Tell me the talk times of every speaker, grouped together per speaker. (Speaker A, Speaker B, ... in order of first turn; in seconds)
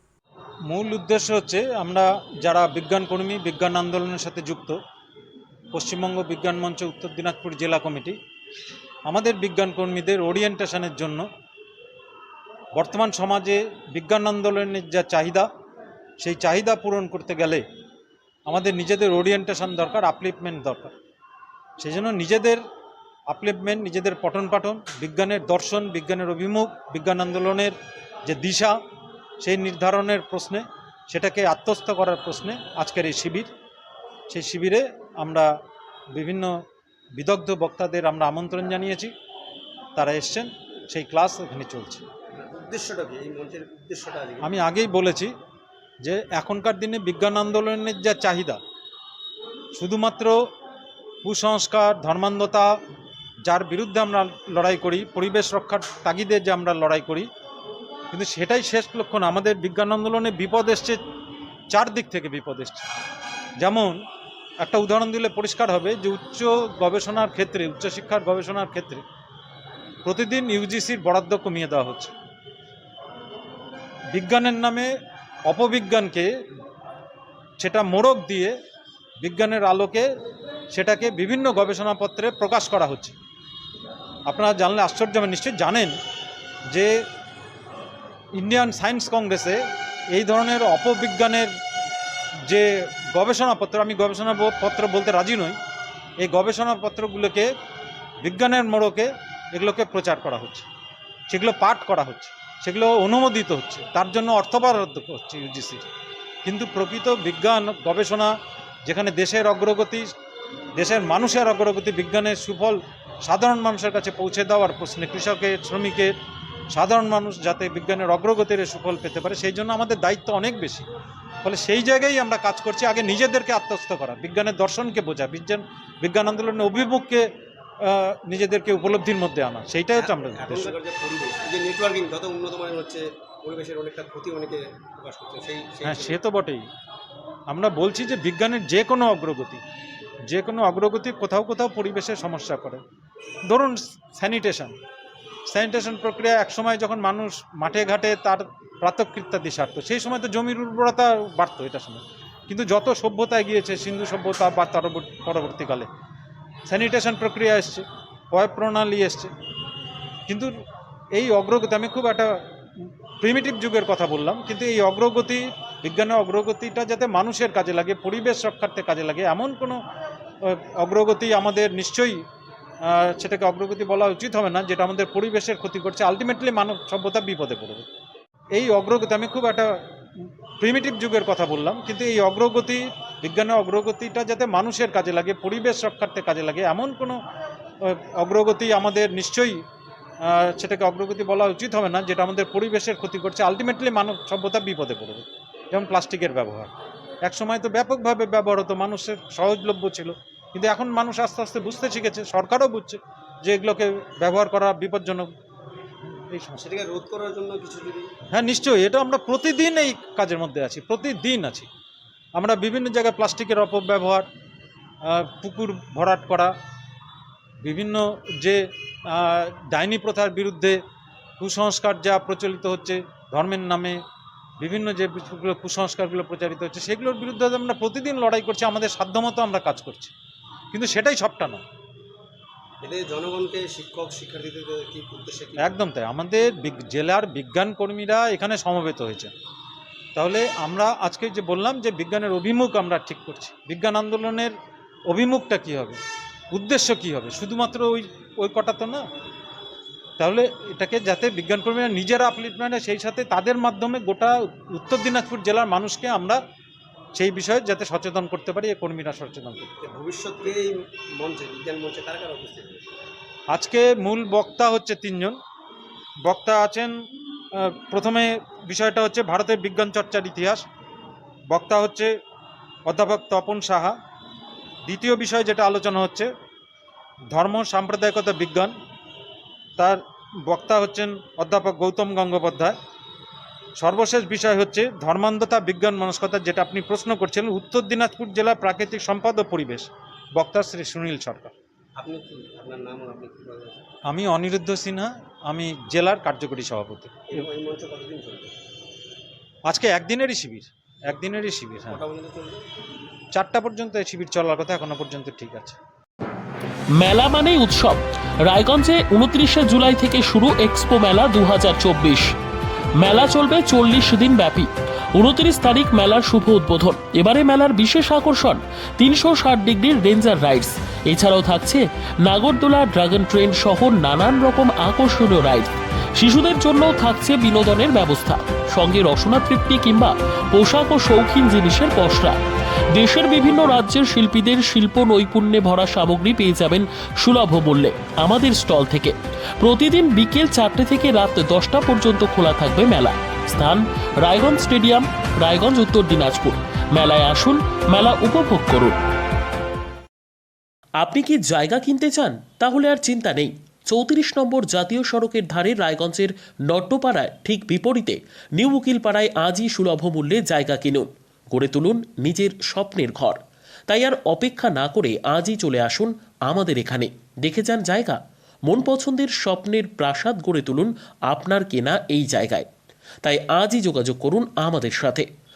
Speaker A: 0.7-4.8, 5.7-8.2, 9.1-11.3, 12.7-15.5, 16.2-17.6, 18.5-21.0, 21.8-22.6, 23.3-27.8, 28.3-28.8, 29.4-33.5, 34.3-35.5, 36.1-36.5, 37.2-39.1, 40.0-42.0, 44.4-45.3, 46.0-48.6, 49.8-50.4, 51.2-52.7, 53.5-57.3, 58.1-61.0, 61.7-62.9, 63.6-64.0, 64.6-69.0, 70.0-72.1, 74.1-74.9, 75.5-76.3, 77.6-78.5, 79.2-80.1, 80.7-83.2, 84.3-86.0, 88.4-89.6, 90.1-91.5, 92.5-95.6, 96.2-97.5, 98.2-100.7, 101.3-105.9, 106.5-108.3, 108.9-110.0, 110.8-116.1, 116.7-120.9, 121.4-127.2, 127.8-130.8, 135.8-136.6, 137.5-139.6, 140.3-142.8, 143.5-144.8, 145.5-155.9, 156.7-159.3, 160.3-160.5, 161.1-169.8, 170.4-172.2, 172.8-177.9, 178.5-187.2, 187.8-189.6, 190.2-196.7, 197.2-205.3, 206.1-206.6, 208.3-211.7, 212.3-214.3, 215.1-216.5, 217.6-220.8, 221.4-224.0, 224.6-230.1, 230.7-231.6, 235.6-239.3, 240.2-244.5, 245.1-246.0, 246.5-249.0, 250.2-256.4, 257.1-259.7, 263.5-265.4, 266.2-266.9, 267.5-270.6, 271.5-272.1, 272.9-273.9, 274.9-276.3, 277.3-278.7, 279.8-282.8, 283.8-291.5, 294.1-297.5, 299.7-302.0, 303.3-305.8
Speaker B: 42.4-44.6, 130.0-136.2, 206.6-208.1, 232.8-235.8, 259.8-262.8, 292.0-293.8, 297.3-298.5, 301.9-302.6
Speaker C: 306.9-312.3, 313.0-332.4, 332.9-349.0, 351.0-372.7, 373.2-375.3